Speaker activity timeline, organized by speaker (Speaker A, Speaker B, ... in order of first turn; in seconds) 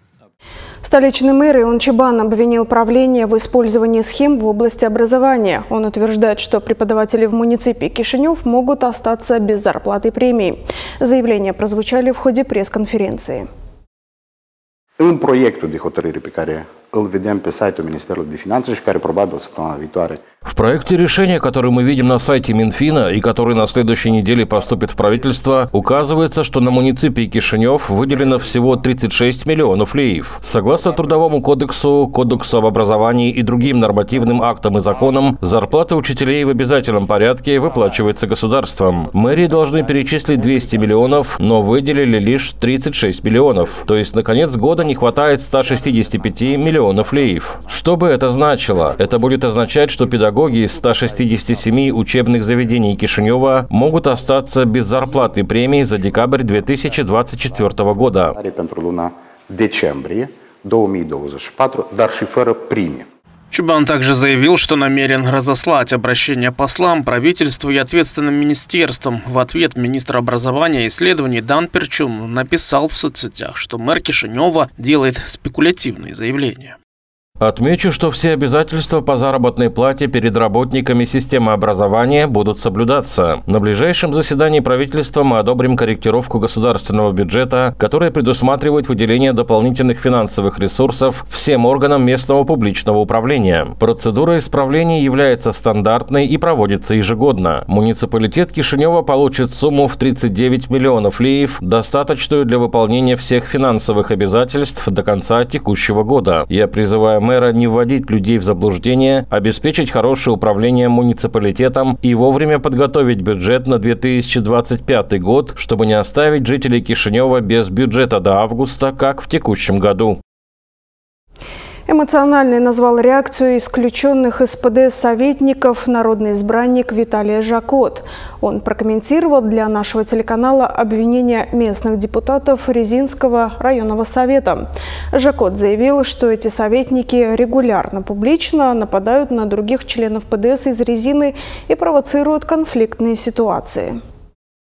Speaker A: 0.8-13.5, 121.9-144.0
Speaker B: 15.0-20.2, 58.3-63.0
Speaker C: 20.4-58.4, 77.4-120.2
Speaker D: 63.5-76.8